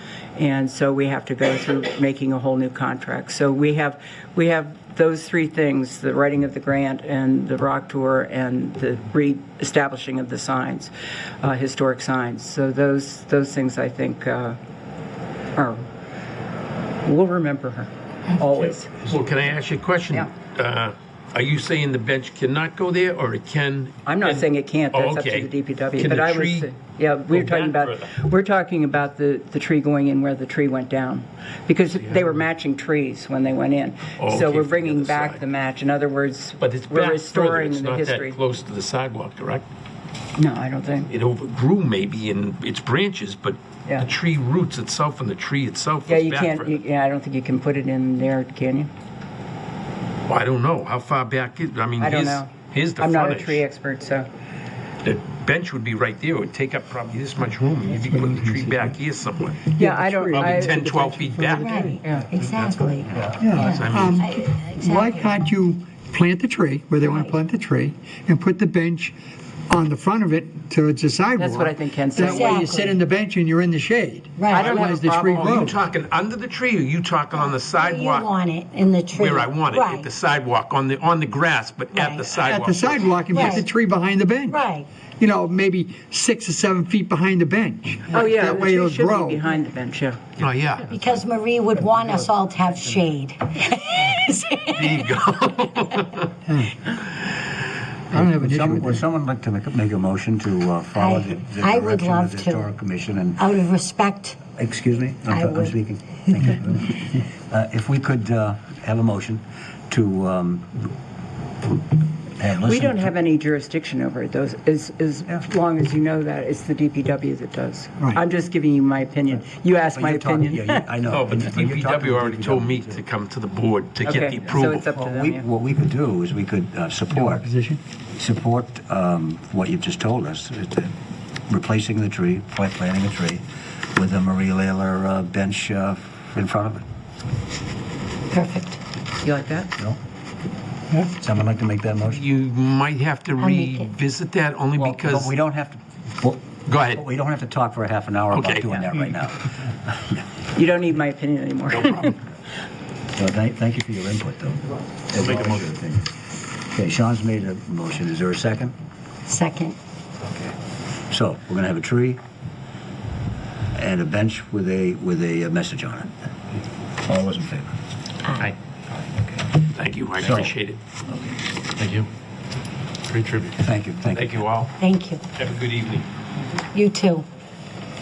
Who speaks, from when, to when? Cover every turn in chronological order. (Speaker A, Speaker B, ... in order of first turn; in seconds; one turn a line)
Speaker A: 0.4-14.6
Speaker A: 15.6-15.9
Speaker A: 17.1-18.9
Speaker B: 19.1-26.7
Speaker A: 24.1-38.4
Speaker B: 27.3-28.1
Speaker B: 34.2-35.4
Speaker B: 36.6-39.7
Speaker A: 40.4-41.1
Speaker B: 41.1-46.8
Speaker A: 46.1-48.9
Speaker B: 50.3-53.6
Speaker A: 52.0-54.3
Speaker B: 55.0-59.7
Speaker C: 58.0-58.9
Speaker A: 59.8-62.3
Speaker C: 59.8-60.7
Speaker B: 60.3-61.8
Speaker D: 61.5-65.4
Speaker C: 61.5-61.9
Speaker C: 63.4-69.2
Speaker B: 63.6-64.2
Speaker D: 67.0-67.4
Speaker C: 69.7-75.8
Speaker A: 71.4-72.9
Speaker D: 72.3-73.0
Speaker D: 74.4-74.7
Speaker A: 74.5-75.8
Speaker B: 74.6-78.4
Speaker D: 77.3-80.1
Speaker B: 79.1-83.6
Speaker D: 81.9-82.5
Speaker C: 82.4-84.6
Speaker D: 83.3-83.7
Speaker D: 84.5-84.9
Speaker C: 85.2-89.4
Speaker A: 88.1-90.2
Speaker B: 90.4-90.9
Speaker D: 90.9-95.0
Speaker B: 94.7-96.3
Speaker C: 96.5-96.7
Speaker E: 98.1-103.5
Speaker C: 98.1-99.0
Speaker D: 101.0-102.7
Speaker D: 103.4-104.4
Speaker E: 104.5-110.8
Speaker D: 105.3-105.7
Speaker E: 112.4-113.1
Speaker A: 112.6-120.8
Speaker E: 119.9-123.0
Speaker B: 121.1-124.9
Speaker A: 124.0-125.4
Speaker E: 124.5-127.5
Speaker C: 127.2-127.8
Speaker E: 128.2-130.9
Speaker E: 131.5-136.8
Speaker D: 138.3-138.8
Speaker A: 139.2-139.7
Speaker E: 141.1-142.2
Speaker B: 142.1-145.3
Speaker D: 143.4-143.9
Speaker E: 144.8-150.2
Speaker B: 146.7-147.0
Speaker B: 148.3-148.7
Speaker A: 150.6-152.2
Speaker B: 151.7-152.2
Speaker E: 153.2-156.1
Speaker B: 155.2-155.6
Speaker E: 156.8-158.7
Speaker D: 159.3-159.8
Speaker E: 161.1-162.2
Speaker E: 163.8-166.1
Speaker E: 167.1-167.8
Speaker E: 169.1-169.5
Speaker B: 169.7-170.8
Speaker E: 170.2-170.5
Speaker B: 171.8-172.1
Speaker B: 173.1-173.6
Speaker E: 173.6-174.4
Speaker B: 174.1-174.8
Speaker D: 174.8-175.2
Speaker B: 175.4-176.1
Speaker D: 176.7-177.2